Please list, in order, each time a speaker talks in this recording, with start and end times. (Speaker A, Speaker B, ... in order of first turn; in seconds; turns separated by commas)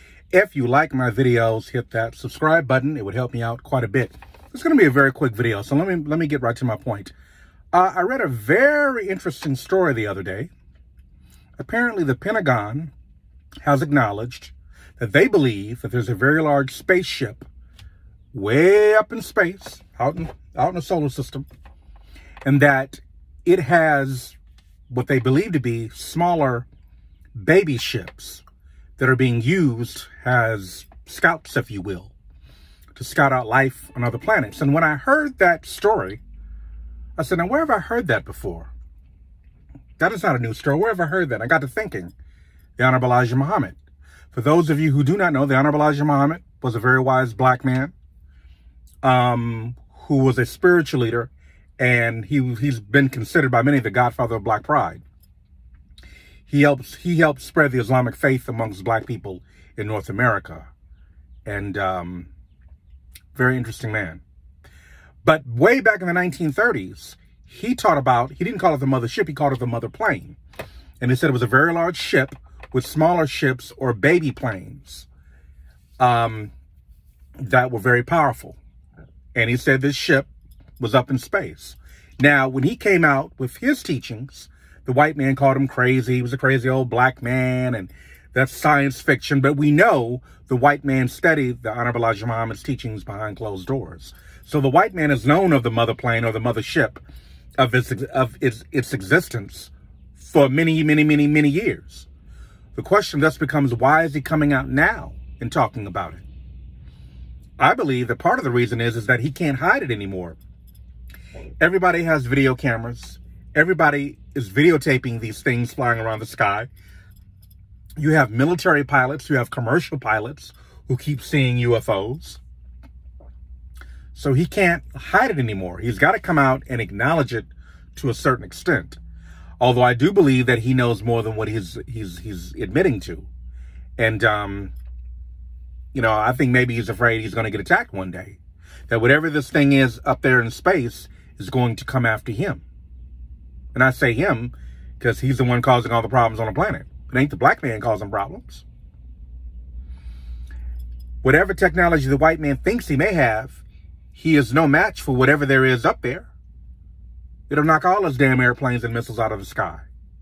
Speaker A: 0.3-7.1, Speaker A: 7.7-10.5, Speaker A: 11.6-12.9, Speaker A: 13.6-17.5, Speaker A: 18.3-21.4, Speaker A: 22.4-24.4, Speaker A: 24.9-26.7, Speaker A: 27.4-28.4, Speaker A: 29.0-32.1, Speaker A: 32.9-36.2, Speaker A: 37.2-38.7, Speaker A: 40.0-42.1, Speaker A: 42.8-43.8, Speaker A: 44.3-47.9, Speaker A: 49.0-55.0, Speaker A: 56.5-60.7, Speaker A: 61.5-62.3, Speaker A: 63.3-64.2, Speaker A: 65.2-70.4, Speaker A: 71.0-75.1, Speaker A: 76.0-76.5, Speaker A: 77.4-78.6, Speaker A: 79.3-80.3, Speaker A: 80.8-97.0, Speaker A: 97.6-102.1, Speaker A: 102.7-106.2, Speaker A: 107.6-110.4, Speaker A: 111.6-116.7, Speaker A: 118.0-122.4, Speaker A: 124.1-129.0, Speaker A: 129.6-133.3, Speaker A: 134.0-134.7, Speaker A: 135.9-142.6, Speaker A: 143.7-148.7, Speaker A: 151.2-153.6, Speaker A: 154.2-156.3, Speaker A: 157.5-159.8